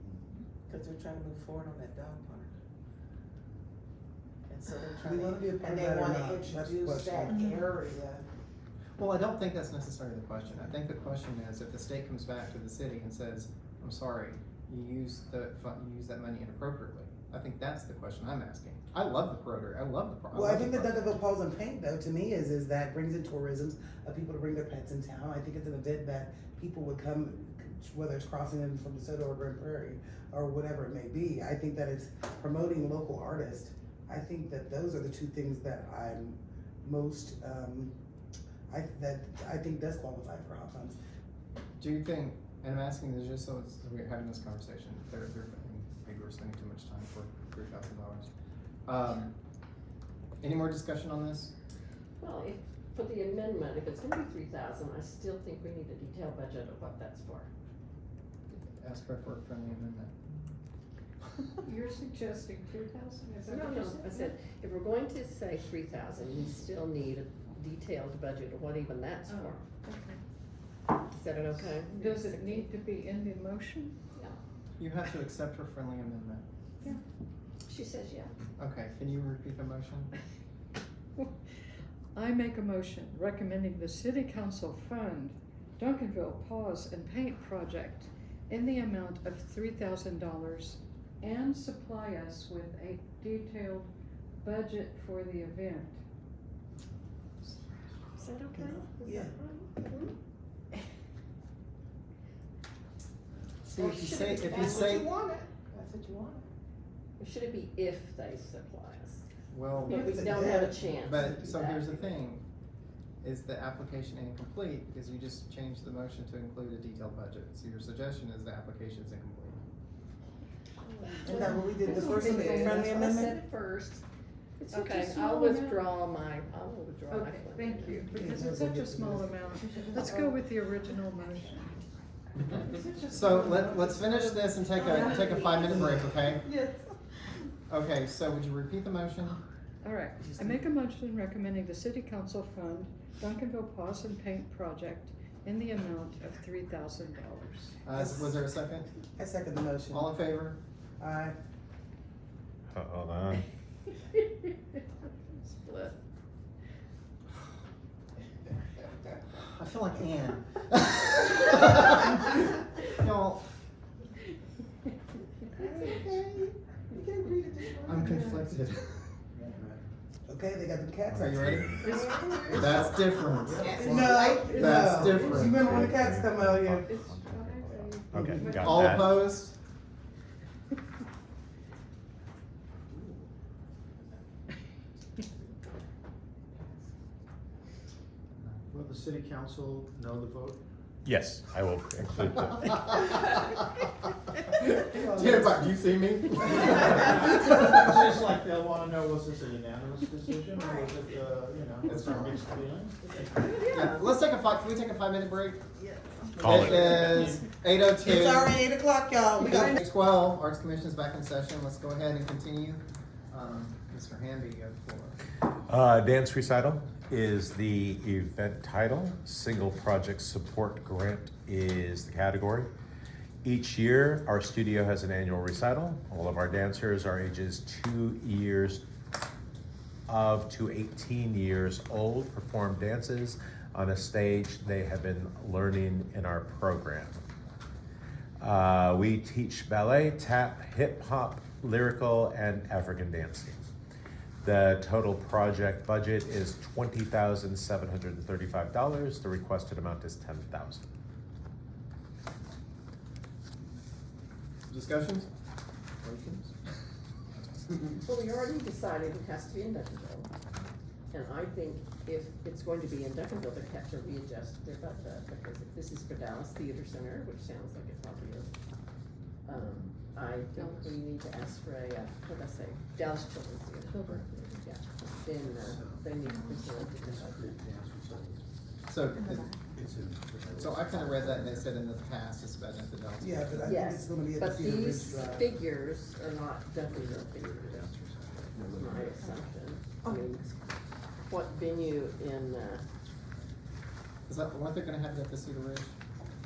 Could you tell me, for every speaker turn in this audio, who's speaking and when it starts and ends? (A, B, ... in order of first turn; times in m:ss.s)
0:00.7-0:02.5 A
0:04.5-0:08.2 A
0:05.0-0:07.5 B
0:09.0-0:21.0 C
0:20.3-0:37.9 B
0:38.7-0:41.0 B
0:41.8-0:48.3 C
0:48.9-0:49.3 C
0:50.4-0:51.5 C
0:52.2-0:57.5 D
0:58.5-1:00.2 C
1:01.6-1:04.4 E
1:03.4-1:09.7 D
1:09.3-1:10.2 E
1:11.1-1:12.7 D
1:12.0-1:13.9 E
1:14.1-1:14.4 D
1:14.8-1:16.4 C
1:17.7-1:18.3 D
1:18.6-1:20.1 C
1:22.2-1:33.9 E
1:34.4-1:36.0 E
1:38.2-1:40.1 D
1:38.6-1:39.4 B
1:43.7-1:45.1 C
1:43.8-1:45.0 D
1:44.3-1:46.4 A
1:47.2-1:49.2 D
1:49.5-1:52.4 C
1:49.9-1:52.1 D
1:49.9-1:50.6 A
1:49.9-1:51.5 B
1:53.2-1:59.6 C
2:00.9-2:04.0 D
2:01.2-2:03.3 E
2:01.2-2:03.4 B
2:02.3-2:03.2 A
2:04.6-2:08.2 D
2:04.6-2:05.9 E
2:07.1-2:11.8 E
2:08.1-2:09.6 B
2:12.5-2:13.6 A
2:13.1-2:16.5 C
2:14.8-2:17.0 A
2:17.7-2:19.4 C
2:19.8-2:27.8 E
2:27.8-2:28.9 C
2:27.9-2:28.3 B
2:29.2-2:30.2 B
2:29.9-2:30.6 C
2:31.0-2:31.4 B
2:32.7-2:33.4 F
2:35.3-2:36.0 D
2:39.4-2:43.4 C
2:45.6-2:48.2 B
2:47.8-2:48.9 C
2:48.1-2:48.4 E
2:49.4-2:49.8 G
2:50.3-2:51.5 B
2:51.1-2:52.1 F
2:51.1-2:51.7 C
2:51.8-2:52.5 D
2:51.9-2:52.8 A
2:52.5-2:55.6 C
2:52.7-2:53.0 F
2:53.5-2:53.9 G
2:53.6-2:55.2 A
2:53.7-2:56.9 B
2:54.1-2:54.7 E
2:55.2-2:55.7 E
2:55.5-2:59.2 F
2:56.9-2:58.8 E
2:58.1-2:58.6 B
2:58.5-2:59.6 C
3:08.7-3:10.6 G
3:11.0-3:13.2 F
3:14.6-3:18.1 C
3:14.9-3:15.7 G
3:16.4-3:23.5 G
3:20.6-3:20.9 A
3:21.8-3:22.5 C
3:23.0-3:24.1 D
3:23.7-3:25.6 C
3:26.4-3:27.2 F
3:26.4-3:28.6 C
3:26.5-3:27.5 G
3:28.0-3:29.8 B
3:29.5-3:35.2 C
3:35.7-3:42.7 F
3:43.4-3:48.8 F
3:50.1-3:57.2 F
3:58.4-4:03.7 F
4:04.4-4:10.8 F
4:14.7-4:15.3 C
4:16.0-4:16.5 C
4:18.0-4:20.3 D
4:21.1-4:28.5 D
4:29.4-4:37.6 D
4:30.6-4:30.9 E
4:33.9-4:34.5 E
4:35.7-4:38.4 A
4:38.9-4:39.6 C
4:39.7-4:41.6 A
4:40.5-4:43.7 C
4:43.2-4:45.5 B
4:43.6-4:48.0 D
4:47.8-4:49.3 A
4:48.7-4:50.5 D
4:51.2-4:52.8 D
4:54.3-4:56.0 C